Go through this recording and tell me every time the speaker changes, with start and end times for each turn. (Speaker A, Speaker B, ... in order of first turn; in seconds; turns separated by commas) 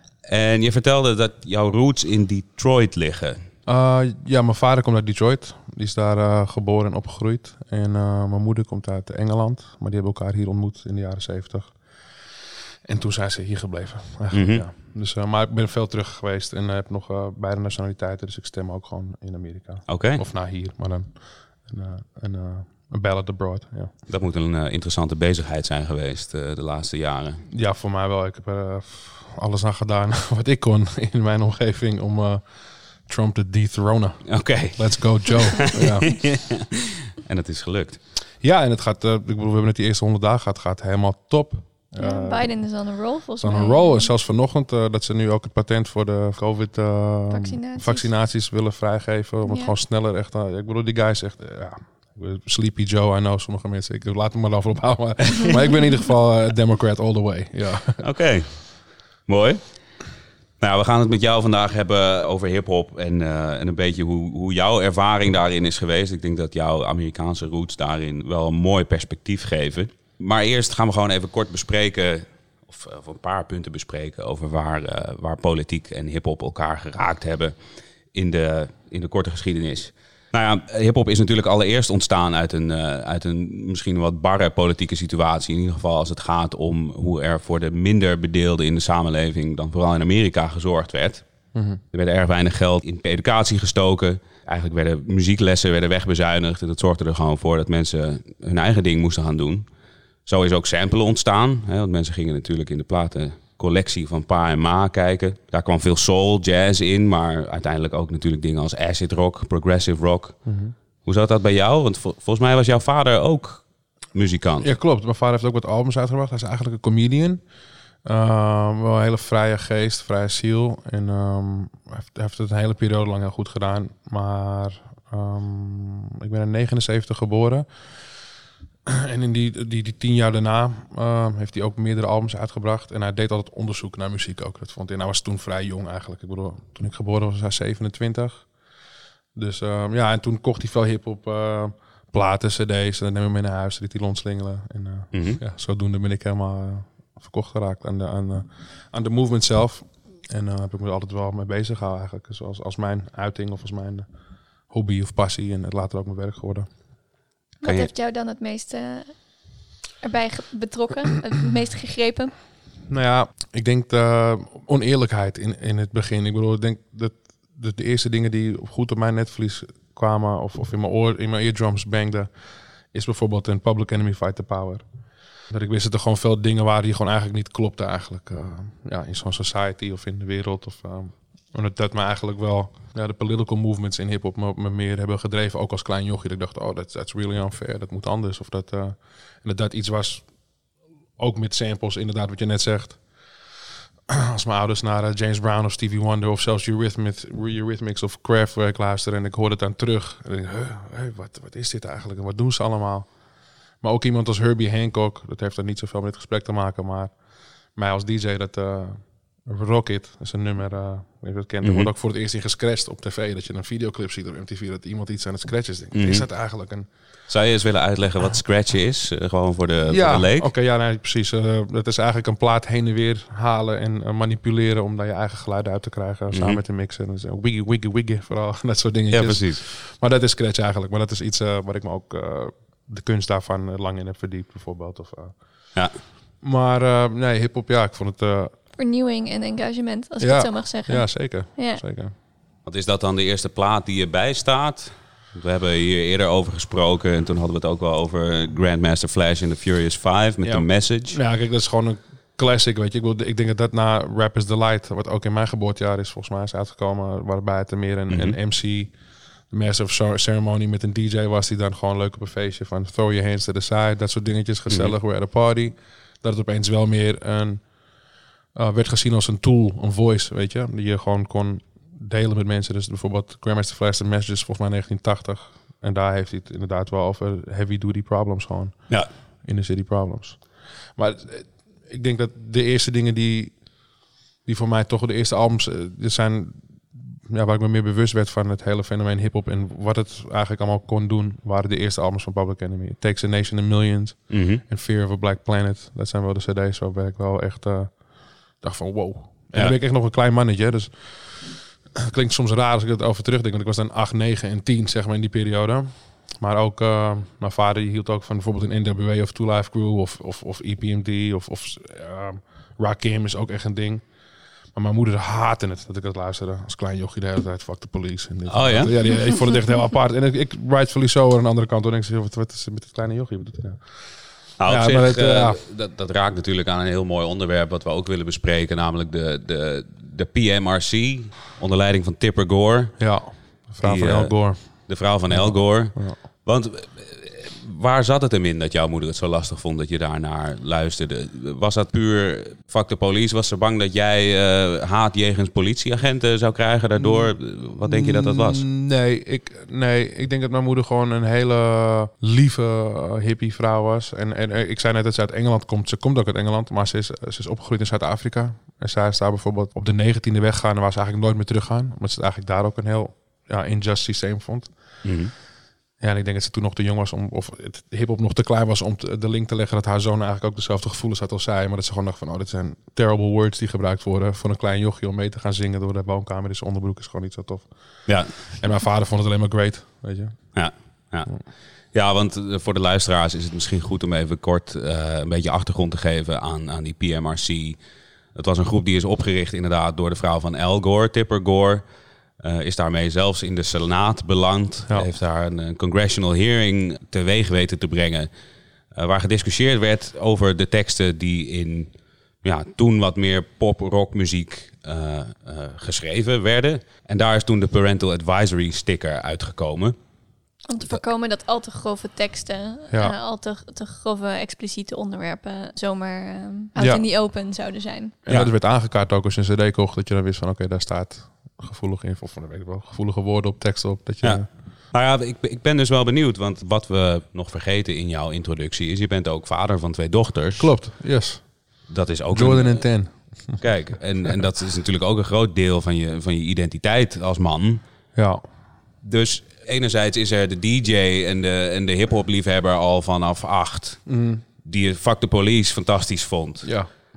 Speaker A: 0.2-3.4, Speaker B: 3.6-11.8, Speaker B: 12.8-23.9, Speaker A: 14.3-14.6, Speaker A: 19.9-20.2, Speaker A: 24.1-27.4, Speaker B: 27.5-32.5, Speaker B: 33.0-36.3, Speaker A: 34.3-38.0, Speaker B: 38.4-42.5, Speaker C: 42.0-44.1, Speaker B: 43.4-58.0, Speaker C: 47.3-48.1, Speaker C: 49.5-49.8, Speaker A: 58.0-58.7, Speaker A: 59.3-59.6, Speaker A: 60.6-77.5, Speaker A: 78.1-91.2, Speaker B: 91.5-91.8, Speaker A: 91.9-99.7, Speaker A: 100.2-110.4, Speaker B: 110.4-110.7, Speaker A: 111.0-114.7, Speaker B: 114.6-117.4, Speaker B: 118.0-127.7, Speaker B: 128.8-138.5, Speaker B: 139.3-154.1, Speaker A: 145.1-145.4, Speaker B: 154.7-156.7, Speaker C: 157.6-159.2, Speaker A: 157.6-157.9, Speaker C: 160.0-162.3, Speaker B: 162.9-172.3, Speaker B: 172.9-174.8, Speaker B: 175.5-190.2, Speaker B: 191.2-193.0, Speaker B: 194.1-203.1, Speaker B: 203.8-207.1, Speaker B: 207.7-216.9, Speaker A: 211.6-211.9, Speaker A: 215.9-216.2, Speaker A: 217.3-220.5, Speaker B: 219.9-235.3, Speaker A: 226.3-226.6, Speaker A: 229.1-229.6, Speaker A: 235.7-236.0, Speaker B: 236.4-238.5, Speaker C: 238.8-241.8, Speaker B: 240.2-242.1, Speaker A: 242.6-251.2, Speaker B: 250.4-258.9, Speaker A: 258.1-258.4, Speaker B: 259.5-267.6, Speaker A: 264.7-264.9, Speaker B: 268.5-278.9, Speaker B: 279.4-280.4, Speaker B: 280.9-283.6, Speaker B: 284.4-298.0, Speaker A: 294.3-294.6, Speaker B: 298.5-314.0, Speaker B: 314.7-325.6, Speaker A: 318.5-318.9, Speaker A: 324.6-333.0, Speaker B: 333.0-336.2, Speaker A: 333.8-348.6, Speaker B: 347.0-347.3, Speaker B: 347.9-365.0, Speaker A: 365.0-365.3, Speaker B: 366.0-380.5, Speaker A: 378.1-378.5, Speaker A: 380.5-387.8, Speaker A: 388.3-391.8, Speaker A: 392.4-398.3, Speaker A: 398.9-409.9, Speaker C: 410.7-418.2, Speaker B: 416.8-417.0, Speaker B: 418.2-424.5, Speaker A: 424.2-430.7, Speaker B: 430.6-431.6, Speaker A: 431.9-432.9, Speaker B: 432.3-433.6, Speaker A: 433.6-437.8, Speaker B: 438.1-438.4, Speaker A: 439.0-444.1, Speaker B: 444.1-444.4, Speaker A: 444.6-446.7, Speaker B: 446.6-446.9